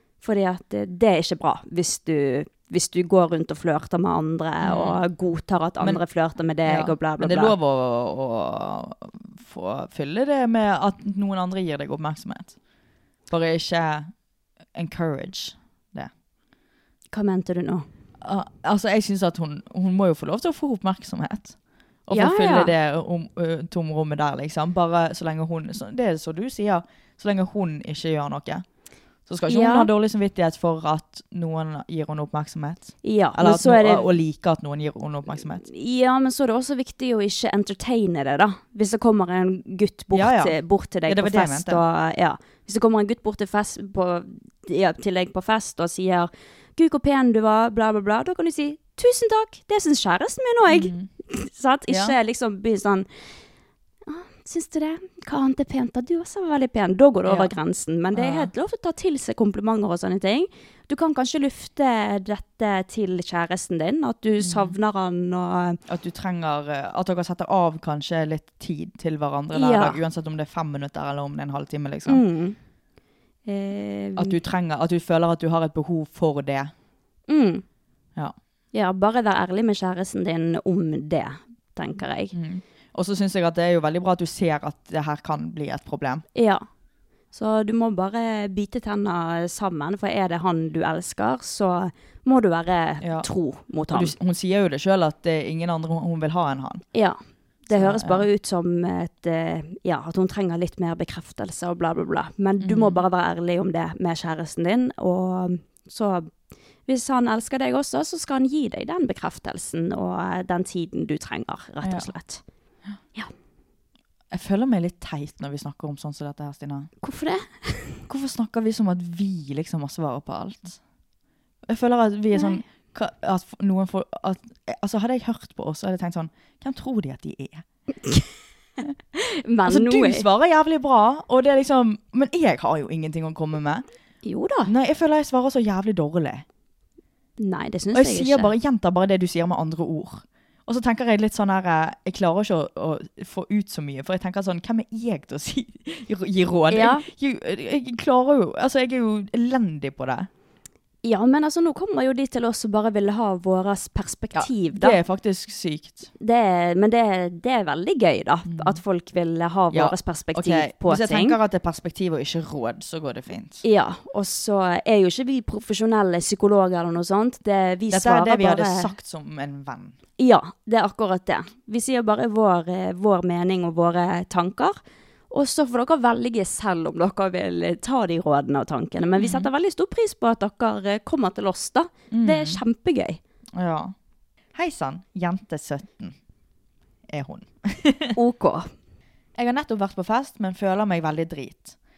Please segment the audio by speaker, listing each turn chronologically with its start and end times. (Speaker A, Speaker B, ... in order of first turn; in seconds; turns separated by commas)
Speaker A: 0.2-7.5, Speaker B: 4.6-5.0, Speaker B: 6.7-12.6, Speaker B: 13.3-14.1, Speaker B: 14.7-16.1, Speaker A: 17.1-17.9, Speaker B: 18.2-28.6, Speaker A: 22.1-22.7, Speaker B: 29.3-35.6, Speaker A: 29.5-29.9, Speaker A: 33.0-34.1, Speaker A: 35.6-53.1, Speaker B: 40.1-41.8, Speaker B: 50.7-51.1, Speaker B: 51.9-52.1, Speaker A: 54.1-65.8, Speaker B: 57.2-57.5, Speaker B: 58.1-58.5, Speaker B: 64.4-64.8, Speaker B: 65.9-72.2, Speaker A: 69.5-70.0, Speaker A: 72.1-72.6, Speaker A: 73.5-74.4, Speaker B: 74.2-76.7, Speaker A: 77.3-77.6, Speaker A: 78.7-82.3, Speaker B: 82.3-86.2, Speaker A: 86.3-86.7, Speaker A: 87.3-94.1, Speaker B: 93.0-93.3, Speaker B: 93.9-96.8, Speaker A: 96.9-106.3, Speaker B: 97.7-98.3, Speaker B: 102.6-103.0, Speaker A: 106.9-112.4, Speaker B: 111.8-112.1, Speaker B: 114.3-116.9, Speaker A: 117.0-118.0, Speaker B: 118.1-120.8, Speaker B: 121.7-127.7, Speaker A: 122.3-122.6, Speaker A: 128.0-128.3, Speaker A: 129.2-130.3, Speaker B: 129.7-133.9, Speaker A: 134.2-134.7, Speaker B: 134.7-136.4, Speaker A: 137.4-138.5, Speaker B: 137.9-150.3, Speaker A: 146.7-147.1, Speaker A: 151.0-155.0, Speaker B: 154.3-156.1, Speaker A: 156.2-161.4, Speaker B: 158.5-158.8, Speaker B: 159.7-163.6, Speaker A: 163.6-168.9, Speaker B: 167.9-170.0, Speaker A: 170.2-174.8, Speaker A: 175.3-183.2, Speaker B: 179.2-179.5, Speaker B: 182.1-182.6, Speaker B: 183.6-183.9, Speaker B: 184.5-186.2, Speaker B: 187.1-188.2, Speaker A: 188.2-188.7, Speaker B: 189.4-191.8